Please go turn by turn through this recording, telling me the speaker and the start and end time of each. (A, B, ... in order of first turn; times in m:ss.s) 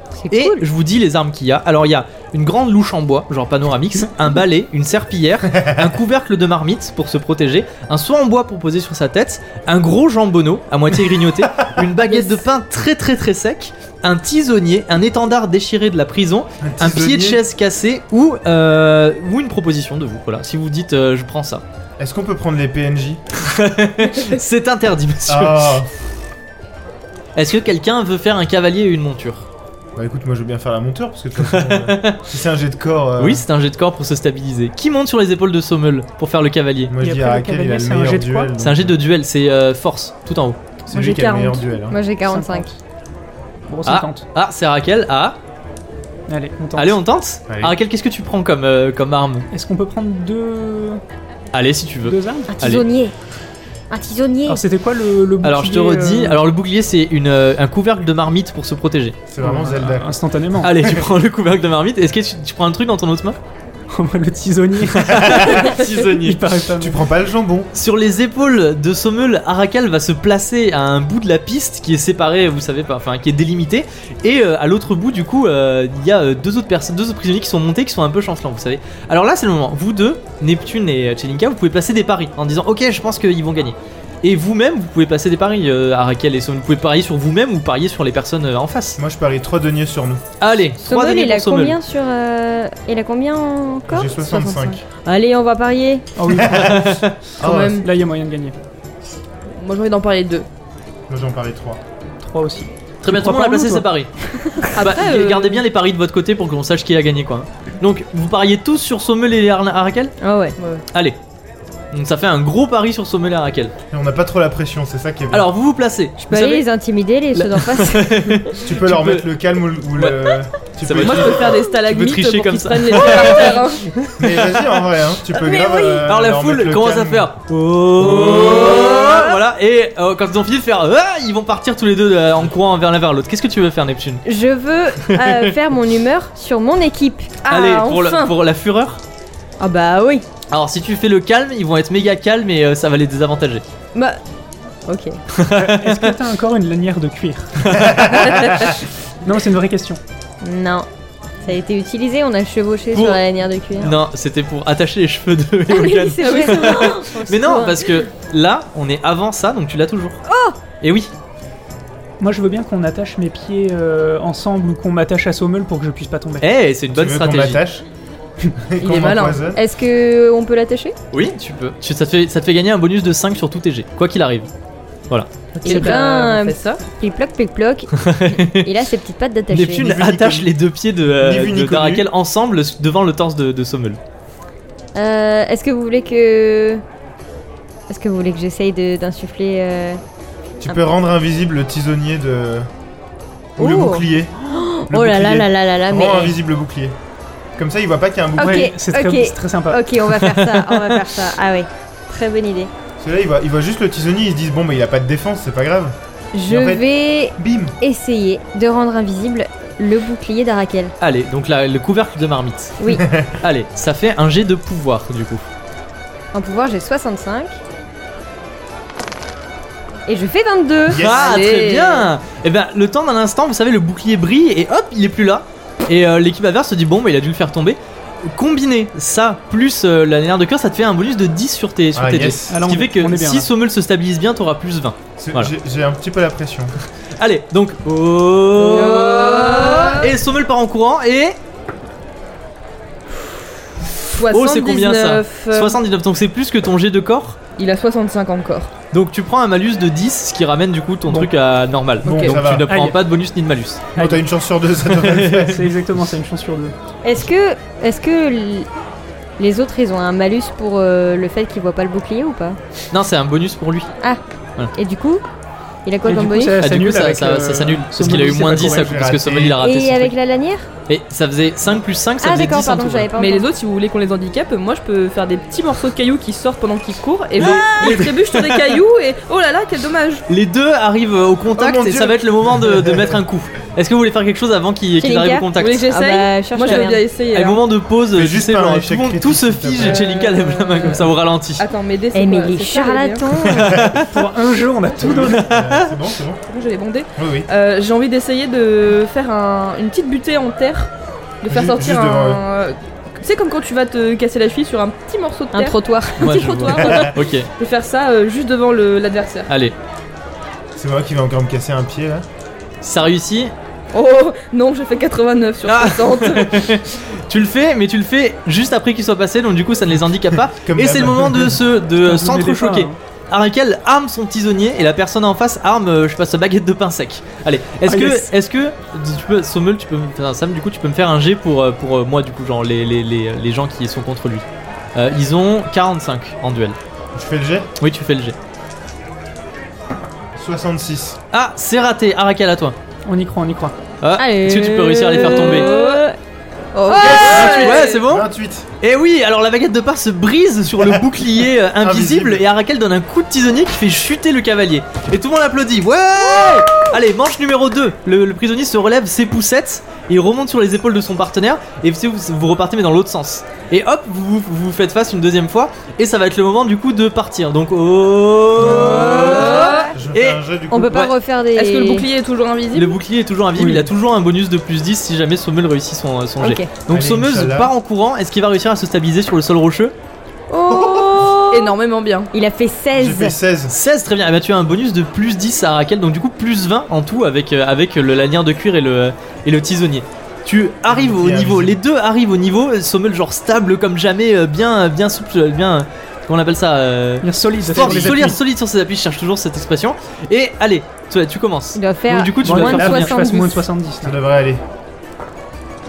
0:00.2-0:00.6 A
0:00.3-0:21.6 B
0:16.6-0:17.4 C
0:22.0-0:23.2 C
0:23.4-0:25.8 B
0:25.3-0:25.9 C
0:27.4-0:29.5 B
0:30.0-0:33.4 C
0:31.4-0:32.2 B
0:33.2-0:36.9 B
0:36.9-0:39.0 C
0:37.0-0:38.5 D
0:38.6-0:40.6 B
0:40.9-0:42.0 C
0:40.9-0:41.6 E
0:41.9-0:42.7 A
0:42.2-0:42.8 D
0:43.7-0:44.2 D
0:43.8-0:45.4 B
0:46.3-0:47.0 D
0:46.8-0:49.5 B
0:47.5-0:47.8 C
0:49.5-0:51.0 D
0:51.5-0:52.8 B
0:52.0-0:52.6 D
0:52.5-0:53.1 A
0:53.9-0:54.6 A
0:54.5-0:56.4 D
0:55.4-0:59.2 B
0:59.3-1:00.1 C
0:59.4-1:00.8 D
1:00.6-1:03.4 B
1:03.9-1:07.0 D
1:04.9-1:06.1 B
1:05.2-1:07.7 C
1:07.7-1:29.0 B
1:29.0-1:30.2 C
1:30.4-1:31.8 B
1:30.9-1:36.1 A
1:33.9-1:34.8 C
1:36.2-1:38.6 D
1:36.3-1:36.8 C
1:36.4-1:37.2 B
1:37.4-1:37.8 C
1:37.4-1:37.9 E
1:39.6-1:40.5 E
1:41.1-1:41.8 C
1:42.2-1:43.9 D
1:43.0-1:44.1 B
1:44.6-1:50.1 B
1:44.7-1:45.6 E
1:50.2-1:50.6 A
1:50.6-1:50.8 E
1:50.9-1:51.2 B
1:51.9-1:53.7 B
1:53.9-1:55.5 C
1:55.3-1:56.6 B
1:56.3-1:58.4 A
1:57.3-1:59.3 B
1:58.6-2:01.6 C
2:00.0-2:04.7 B
2:01.0-2:03.9 E
2:04.2-2:07.3 C
2:05.3-2:06.0 A
2:06.1-2:14.2 B
2:08.0-2:08.7 C
2:08.8-2:09.2 E
2:14.2-2:17.3 A
2:15.1-2:15.6 B
2:17.4-2:18.3 E
2:17.5-2:19.0 B
2:19.6-2:20.3 A
2:20.5-2:23.6 B
2:23.9-2:24.2 A
2:24.9-2:25.2 A
2:25.3-2:26.2 B
2:25.5-2:27.8 D
2:27.6-2:28.4 B
2:27.9-2:28.2 C
2:29.2-2:30.0 D
2:30.4-2:30.9 A
2:31.4-2:34.0 A
2:32.9-2:33.2 B
2:33.8-2:40.2 B
2:35.7-2:38.0 A
2:36.2-2:37.0 E
2:40.3-2:40.6 A
2:40.8-2:41.1 B
2:42.2-2:46.5 D
2:46.4-2:47.6 B
2:46.9-2:47.8 C
2:48.6-2:49.6 C
2:48.8-2:49.4 E
2:49.5-2:51.0 A
2:51.1-2:54.5 B
2:55.6-2:55.9 D
2:55.6-2:56.8 E
2:55.6-2:59.9 A
2:58.0-2:58.7 B
2:59.5-3:04.0 B
2:59.7-3:00.5 C
3:01.2-3:02.1 C
3:05.0-3:06.8 A
3:07.9-3:10.0 A
3:10.6-3:12.7 C
3:13.6-3:14.3 C
3:13.6-3:16.4 A
3:14.9-3:17.0 C
3:17.6-3:18.8 C
3:18.4-3:19.9 D
3:18.4-3:22.7 A
3:20.0-3:21.1 B
3:23.0-3:26.0 C
3:26.3-3:30.9 A
3:26.5-3:26.9 C
3:27.4-3:27.8 C
3:31.0-3:32.8 B
3:32.8-3:33.0 A
3:32.9-3:33.4 C
3:33.4-3:35.5 B
3:36.3-3:37.6 A
3:40.1-3:41.0 A
3:40.9-3:41.3 C
3:41.0-3:55.5 B
3:41.0-3:42.1 E
3:51.9-3:52.6 C
3:52.5-3:53.5 D
3:55.2-3:56.7 C
3:57.2-4:01.4 B
3:58.6-4:00.1 E
3:58.9-4:00.0 A
4:04.1-4:05.8 E
4:04.3-4:07.4 B
4:07.6-4:08.7 E
4:08.9-4:13.9 B
4:12.0-4:12.4 E
4:12.0-4:12.7 C
4:12.6-4:13.0 D
4:14.0-4:14.2 D
4:14.0-4:15.7 C
4:14.9-4:15.6 B
4:15.4-4:16.7 D
4:17.0-4:18.7 A
4:19.4-4:22.6 A
4:22.9-4:23.9 B
4:24.8-4:25.2 A
4:25.8-4:26.6 A
4:26.0-4:28.9 D
4:26.6-4:30.1 B
4:28.4-4:29.6 C
4:29.6-4:30.7 A
4:30.9-4:33.1 B
4:32.2-4:33.5 A
4:33.2-4:40.2 E
4:37.4-4:38.8 B
4:37.4-4:38.0 A
4:40.3-4:45.9 B
4:41.6-4:43.2 C
4:45.0-4:47.0 A
4:45.6-4:47.6 E
4:47.3-4:51.6 B
4:48.1-4:50.0 C
4:49.8-4:53.3 E
4:52.1-4:53.9 A
4:53.5-4:54.1 B
4:53.6-4:53.9 C
4:54.0-4:55.4 D
4:55.0-4:56.4 C
4:55.1-4:56.0 B
4:56.5-5:00.9 E
4:57.2-4:57.5 C
5:01.4-5:09.5 E
5:01.5-5:02.4 C
5:05.5-5:07.1 A
5:06.2-5:07.5 B
5:06.8-5:07.1 C
5:09.5-5:09.8 B
5:10.7-5:12.3 C
5:12.8-5:13.5 B
5:13.9-5:16.7 E
5:15.6-5:36.8 B
5:20.5-5:21.6 C
5:22.0-5:23.0 D
5:27.8-5:28.3 D
5:37.2-5:37.7 C
5:37.8-5:38.4 B
5:40.4-5:41.2 C
5:41.3-5:42.8 B
5:43.1-5:43.8 D
5:44.0-5:45.7 B
5:44.2-5:46.2 A
5:45.2-5:46.0 E
5:46.7-5:48.0 E
5:46.9-5:47.8 A
5:46.9-5:48.7 C
5:47.3-5:48.3 B
5:48.8-6:10.4 B
5:51.8-5:52.5 C
6:08.6-6:11.1 C
6:08.8-6:09.9 A
6:09.1-6:09.9 E
6:10.7-6:12.1 A
6:11.5-6:13.0 E
6:12.7-6:19.9 B
6:13.6-6:13.9 D
6:16.4-6:16.7 A
6:16.9-6:17.7 C
6:20.5-6:21.7 A
6:20.7-6:21.3 C
6:21.5-6:22.3 E
6:22.3-6:23.4 A
6:22.9-6:23.7 C
6:23.7-6:43.2 B
6:30.9-6:31.8 C
6:37.2-6:38.4 D
6:37.6-6:38.3 C
6:41.8-6:43.7 A
6:42.4-6:44.2 D
6:44.0-6:44.6 C